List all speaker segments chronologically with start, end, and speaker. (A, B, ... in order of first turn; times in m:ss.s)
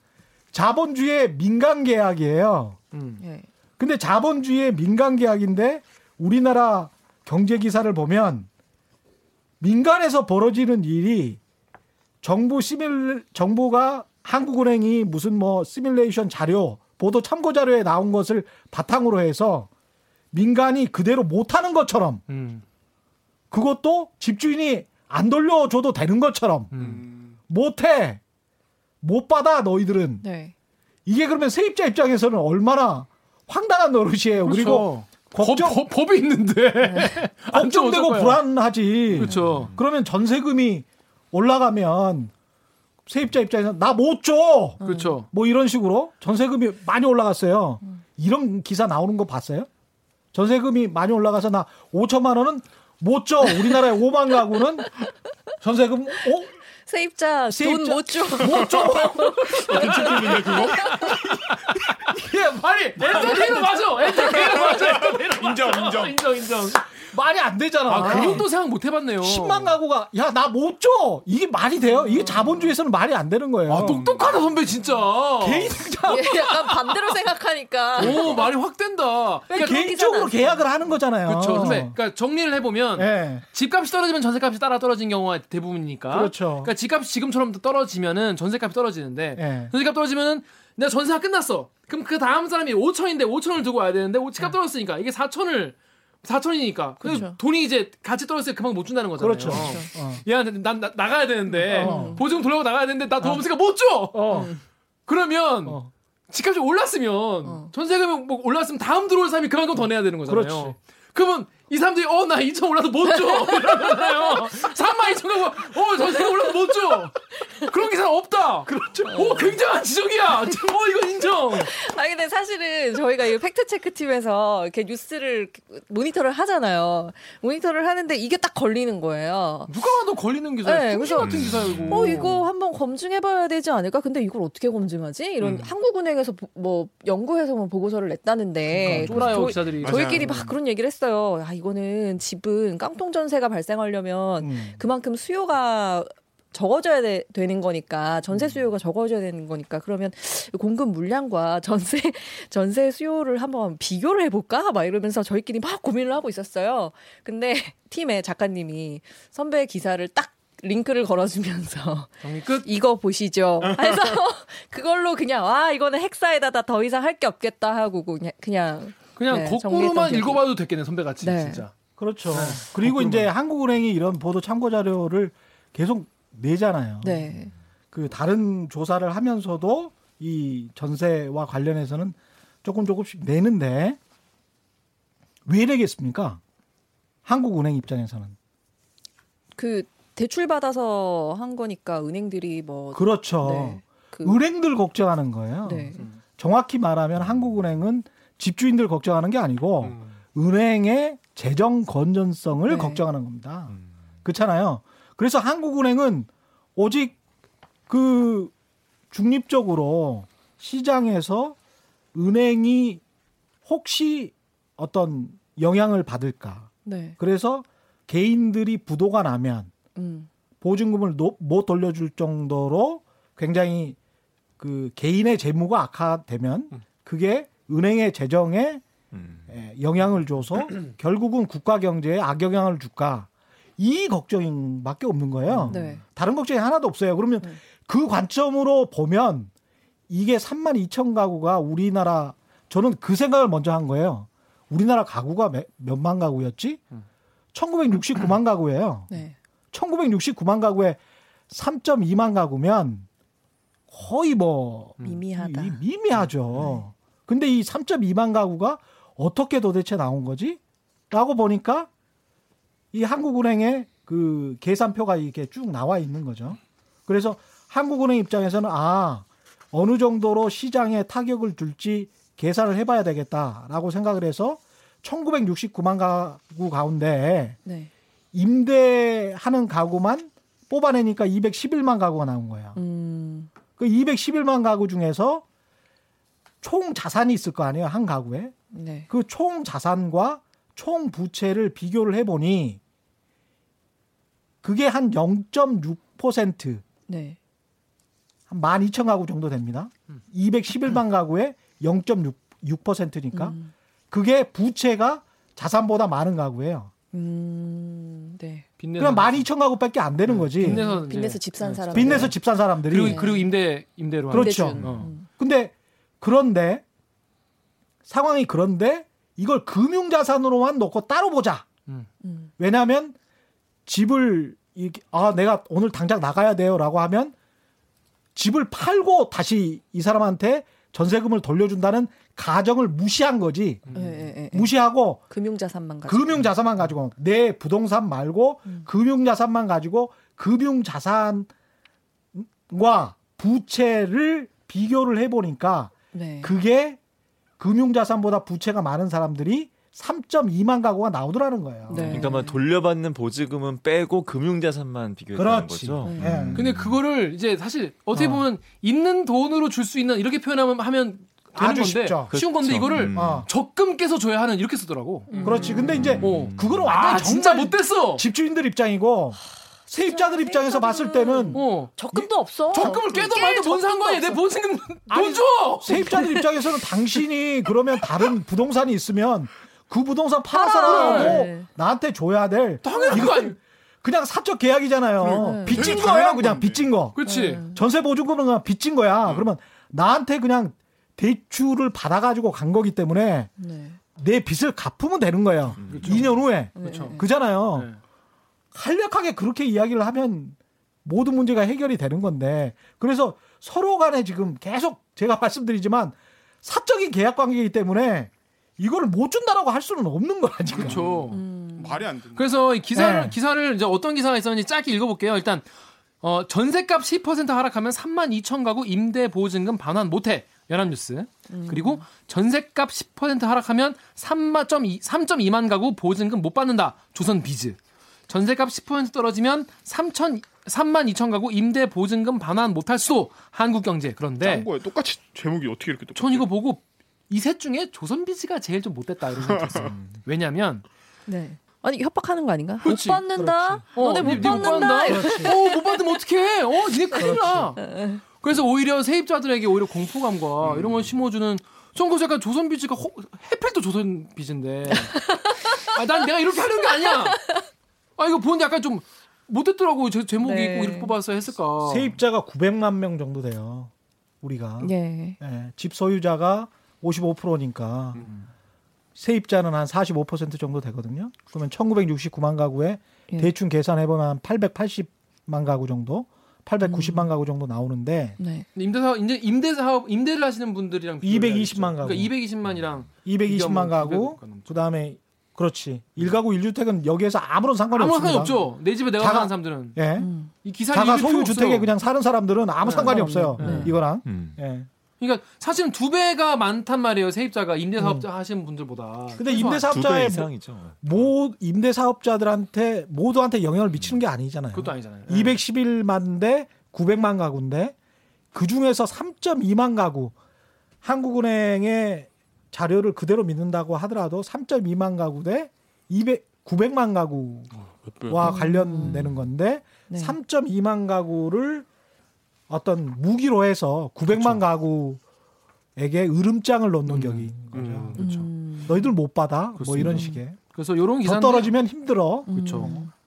0:00.5-0:02.8 A
0:02.9-0:03.2 B
0:03.2-0:03.5 C
0:03.8-0:08.5 A
0:09.6-0:11.4 A
0:12.2-0:19.7 A
0:20.3-0:22.2 A
0:22.3-0:22.6 B
0:23.5-0:26.7 A
0:26.7-0:27.1 B
0:26.8-0:27.1 D
0:27.5-0:28.2 A
0:29.0-0:30.3 A
0:30.2-0:30.5 C
0:31.1-0:35.8 A
0:34.4-0:38.4 B
0:36.8-0:37.3 C
0:37.4-0:42.3 A
0:39.1-0:39.7 B
0:39.5-0:39.8 E
0:43.1-0:49.7 A
0:44.8-0:45.2 C
0:44.8-0:45.3 B
0:50.3-0:55.1 A
0:55.6-0:56.5 A
0:56.9-1:01.1 C
0:57.5-1:00.0 A
0:59.7-1:06.9 B
0:59.7-1:01.2 D
1:02.0-1:03.7 A
1:04.6-1:06.2 D
1:07.0-1:08.5 A
1:07.9-1:09.8 B
1:09.2-1:14.0 A
1:11.9-1:12.6 C
1:13.7-1:17.1 B
1:13.8-1:14.3 D
1:15.4-1:16.3 A
1:16.1-1:18.5 C
1:18.0-1:19.8 B
1:19.5-1:22.0 A
1:19.6-1:20.7 C
1:21.3-1:44.5 B
1:21.6-1:21.8 C
1:23.0-1:23.4 A
1:26.1-1:26.7 A
1:29.4-1:29.7 A
1:37.0-1:37.4 C
1:39.2-1:40.2 A
1:39.5-1:39.9 C
1:41.7-1:42.2 A
1:41.7-1:42.2 C
1:44.1-1:44.5 A
1:45.1-2:01.7 B
1:45.6-1:45.9 A
1:50.3-1:50.8 A
1:53.3-1:54.0 C
1:56.0-1:56.3 C
1:58.7-1:59.1 A
1:59.1-1:59.6 C
2:01.6-2:09.7 C
2:09.7-2:12.4 B
2:10.6-2:50.5 C
2:11.2-2:12.1 E
2:15.4-2:15.7 B
2:18.7-2:19.4 A
2:18.8-2:20.5 B
2:19.8-2:20.3 D
2:24.4-2:24.8 A
2:42.2-2:42.7 B
2:49.2-2:51.7 B
2:51.2-2:51.6 C
2:52.0-2:57.3 A
2:52.3-2:53.3 B
2:57.0-2:57.5 C
2:57.9-3:04.0 A
3:05.5-3:06.4 A
3:07.3-3:08.4 A
3:09.6-3:14.4 C
3:12.9-3:27.2 A
3:15.6-3:16.0 C
3:22.7-3:23.0 C
3:27.9-3:28.5 A
3:29.1-3:31.6 A
3:32.2-3:33.0 A
3:33.7-3:39.7 A
3:36.8-3:37.2 C
3:40.0-3:40.3 C
3:40.6-3:44.0 A
3:44.6-3:48.8 A
3:49.1-3:49.4 E
3:49.5-3:59.5 A
3:55.5-3:56.0 B
3:55.7-3:56.0 C
4:00.1-4:06.8 A
4:07.5-4:09.1 A
4:09.1-4:09.4 C
4:09.7-4:11.0 A
4:11.5-4:13.1 A
4:13.9-4:21.9 A
4:15.0-4:15.8 C
4:22.9-4:37.6 A
4:38.3-4:42.8 A
4:42.8-4:43.5 C
4:43.8-4:45.4 A
4:46.6-4:48.5 A
4:48.7-4:49.1 C
4:49.1-4:52.8 A
4:54.6-4:56.8 A
4:57.1-4:57.4 C
4:58.5-5:03.6 A
5:03.3-5:03.7 C
5:04.1-5:06.9 A
5:07.1-5:08.7 C
5:08.8-5:09.5 B
5:09.0-5:10.8 A
5:10.3-5:12.4 B
5:10.6-5:12.4 C
5:11.9-5:13.2 A
5:12.9-5:15.1 B
5:12.9-5:13.5 C
5:14.3-5:15.3 C
5:14.3-5:16.8 A
5:18.1-5:21.7 A
5:22.2-5:22.5 C
5:22.6-5:23.2 A
5:23.9-5:27.3 A
5:28.4-5:33.9 A
5:33.9-5:34.2 B
5:33.9-5:34.7 C
5:34.5-5:35.2 A
5:35.3-5:36.5 C
5:36.1-5:41.5 A
5:42.3-5:47.0 A
5:46.1-5:46.5 C
5:47.6-5:52.3 A
5:51.9-5:52.6 C
5:52.0-5:52.2 B
5:52.1-5:57.0 E
5:55.4-5:56.6 A
5:56.0-5:56.3 C
5:56.6-6:08.2 B
5:58.1-5:58.4 A
6:01.6-6:02.3 A
6:02.3-6:03.5 E
6:02.9-6:03.5 A
6:05.3-6:06.0 C
6:05.4-6:11.6 A
6:05.9-6:06.9 E
6:10.1-6:14.4 C
6:11.5-6:11.9 B
6:12.7-6:16.2 B
6:15.1-6:33.5 A
6:15.9-6:16.5 C
6:20.5-6:21.7 C
6:20.9-6:21.4 B
6:22.8-6:23.6 B
6:25.2-6:26.9 D
6:25.3-6:25.9 C
6:27.2-6:27.6 B
6:27.2-6:27.8 C
6:33.6-6:34.0 C
6:34.2-6:37.9 A
6:35.8-6:36.3 E
6:35.9-6:37.2 B
6:36.8-6:37.3 C
6:37.7-6:38.0 B
6:38.7-6:51.0 A
6:50.8-6:51.4 B
6:50.8-6:52.5 D
6:51.3-6:52.1 C
6:52.4-6:55.7 B
6:53.0-6:53.4 A
6:56.2-7:07.8 B
7:01.5-7:02.0 C
7:08.3-7:14.7 B
7:14.4-7:16.5 D
7:16.2-7:20.8 B
7:19.5-7:19.9 D
7:21.3-7:26.0 C
7:22.8-7:23.2 B
7:23.4-7:25.6 A
7:23.9-7:35.2 B
7:27.2-7:27.8 A
7:27.2-7:28.2 C
7:35.1-7:35.9 C
7:35.8-7:37.4 B
7:36.8-7:37.6 C
7:38.2-7:42.2 B
7:40.4-7:41.1 C
7:41.8-7:48.3 A
7:44.8-7:45.4 C
7:49.2-7:58.4 A
7:56.8-7:57.3 C
7:58.4-7:58.7 C
7:58.8-8:04.8 B
8:01.2-8:02.4 A
8:03.2-8:08.6 A
8:07.9-8:10.0 B
8:09.2-8:10.3 A
8:10.2-8:10.5 C
8:10.6-8:11.9 B
8:10.9-8:14.9 A
8:12.8-8:14.0 B
8:13.0-8:14.0 C
8:14.2-8:14.6 E
8:15.2-8:19.9 B
8:18.0-8:18.3 A
8:19.4-8:28.0 A
8:19.8-8:21.2 E
8:24.7-8:25.6 B
8:28.5-8:30.3 A
8:31.0-8:37.7 A
8:38.1-8:38.5 D
8:38.2-8:41.9 A
8:38.4-8:39.4 C
8:40.1-8:40.4 C
8:42.7-8:45.2 A
8:44.3-8:44.6 B
8:46.0-8:48.2 A
8:47.1-8:47.5 B
8:47.7-8:48.2 D
8:48.1-8:48.5 B
8:48.2-8:49.0 C
8:48.8-8:50.6 A
8:49.8-8:51.8 B
8:50.0-8:50.4 C
8:51.2-8:53.0 A
8:52.5-8:53.1 C
8:52.5-8:53.1 B